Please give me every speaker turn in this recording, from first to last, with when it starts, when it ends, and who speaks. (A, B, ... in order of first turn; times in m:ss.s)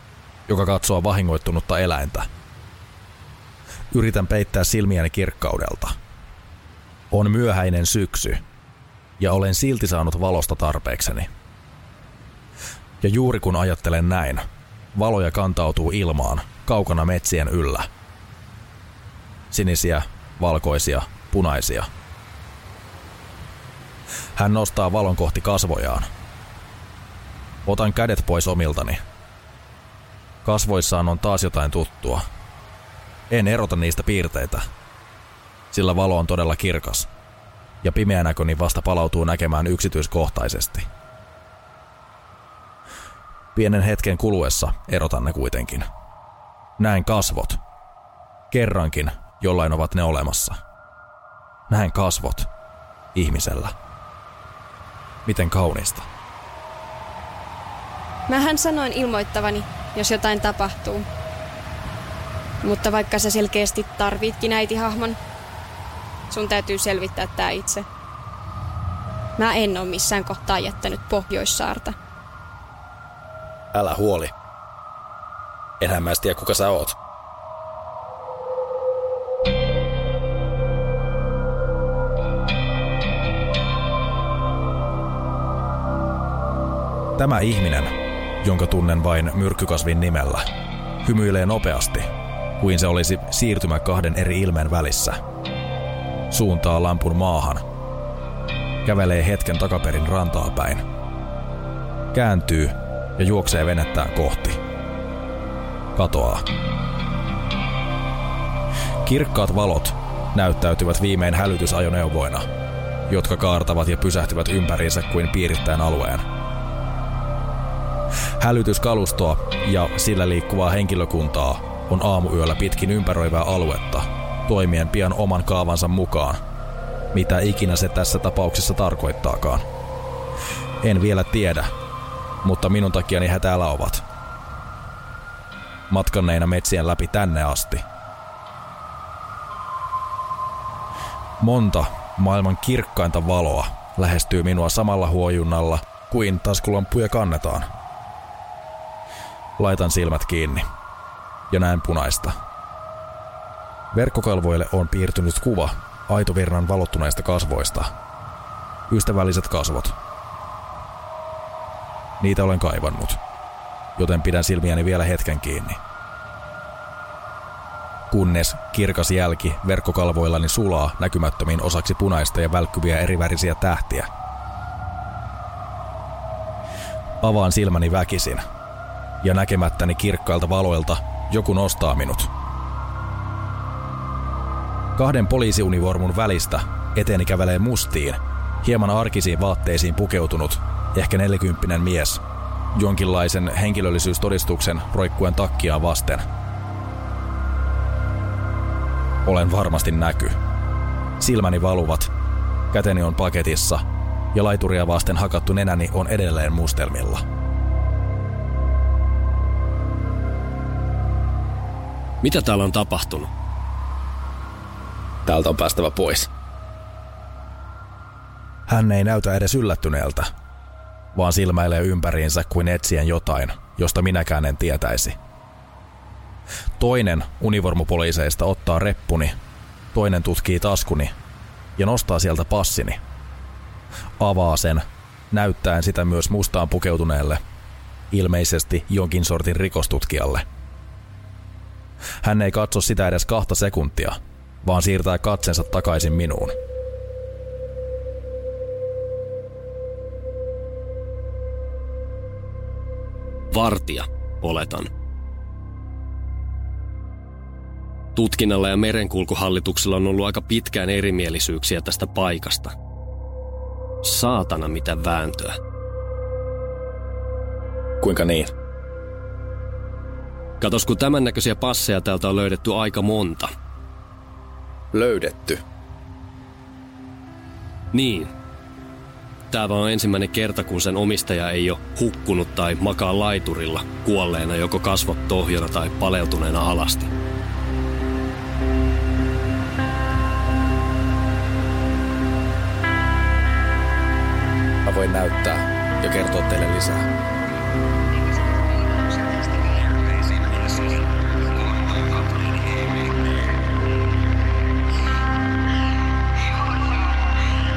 0:00.5-0:02.3 A
0:03.9-0:05.9 A
0:07.1-0:08.4 A
0:09.2-0:11.3 A
0:13.0-0:14.4 A
0:14.9-0:17.9 A
0:19.5-0:21.9 A
0:24.4-0:26.1 A
0:27.6-0:29.0 A
0:30.4-0:32.2 A
0:33.3-0:34.6 A
0:35.7-0:37.1 A
0:37.8-0:40.9 A
0:43.5-0:45.9 A
0:46.8-0:47.6 A
0:48.5-0:50.6 A
0:51.7-0:52.5 A
0:53.1-0:53.7 A
0:55.2-0:56.0 A
0:58.3-1:01.1 B
1:02.6-1:05.2 B
1:06.3-1:07.9 B
1:09.4-1:11.9 B
1:13.7-1:14.3 A
1:15.8-1:17.0 A
1:27.2-1:30.4 A
1:31.0-1:32.1 A
1:32.6-1:35.2 A
1:36.3-1:37.6 A
1:38.8-1:40.8 A
1:42.1-1:44.6 A
1:45.9-1:46.4 A
1:49.0-1:52.5 A
1:53.1-1:56.2 A
1:58.4-2:06.4 A
2:07.1-2:09.6 A
2:10.8-2:11.7 A
2:12.4-2:14.0 A
2:15.9-2:17.8 A
2:21.4-2:27.7 A
2:29.6-2:30.6 A
2:31.5-2:32.3 A
2:33.9-2:37.9 A
2:38.9-2:39.9 A
2:42.2-2:43.2 A
2:44.0-2:45.8 A
2:48.1-2:54.1 A
2:57.2-2:58.4 A
2:59.2-3:02.3 A
3:05.0-3:12.2 A
3:12.7-3:16.2 A
3:19.2-3:20.4 A
3:21.2-3:22.1 A
3:22.7-3:27.2 A
3:32.2-3:33.3 C
3:35.2-3:36.3 A
3:38.7-3:40.3 A
3:41.1-3:45.2 A
3:46.8-3:49.3 A
3:49.9-3:51.1 A
3:51.8-3:53.0 A
3:54.2-3:57.4 A
3:58.1-4:00.4 A
4:02.2-4:06.6 A
4:13.5-4:14.9 C
4:18.1-4:22.7 C
4:24.0-4:25.6 C
4:28.0-4:28.5 A
4:30.6-4:33.5 C
4:34.9-4:35.6 A
4:37.9-4:38.3 C
4:39.5-4:47.1 C
4:54.8-4:57.0 A
4:59.0-4:59.3 B